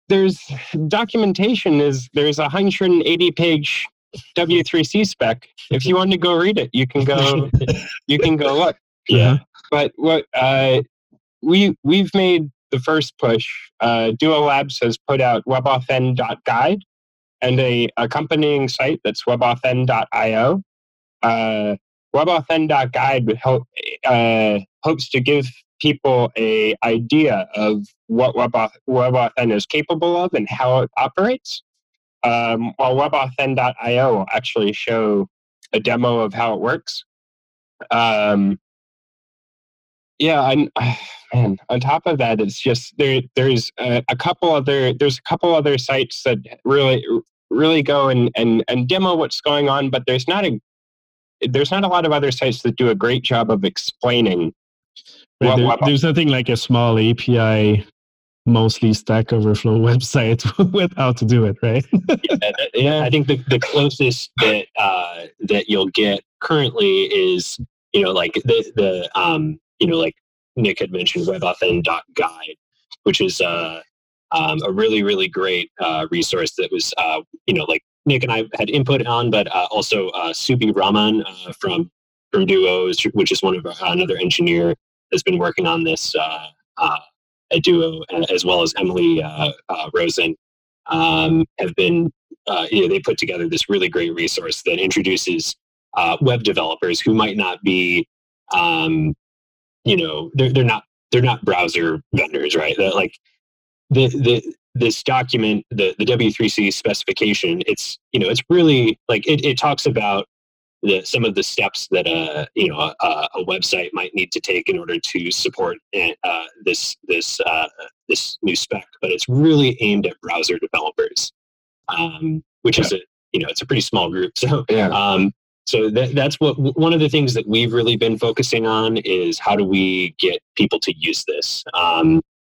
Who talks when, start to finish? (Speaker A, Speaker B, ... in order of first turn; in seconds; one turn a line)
Speaker A: 0.1-10.8
Speaker B: 9.1-9.4
Speaker A: 11.4-16.8
Speaker A: 17.4-20.6
Speaker A: 21.2-31.6
Speaker A: 32.2-37.0
Speaker A: 37.9-38.6
Speaker A: 40.2-50.6
Speaker A: 51.4-54.5
Speaker B: 55.4-57.9
Speaker A: 55.4-55.9
Speaker B: 58.5-62.4
Speaker C: 62.3-90.4
Speaker A: 62.6-63.1
Speaker C: 90.9-99.2
Speaker C: 99.9-103.2
Speaker C: 103.9-110.3
Speaker C: 110.8-121.3
Speaker C: 121.9-132.2
Speaker A: 124.7-125.0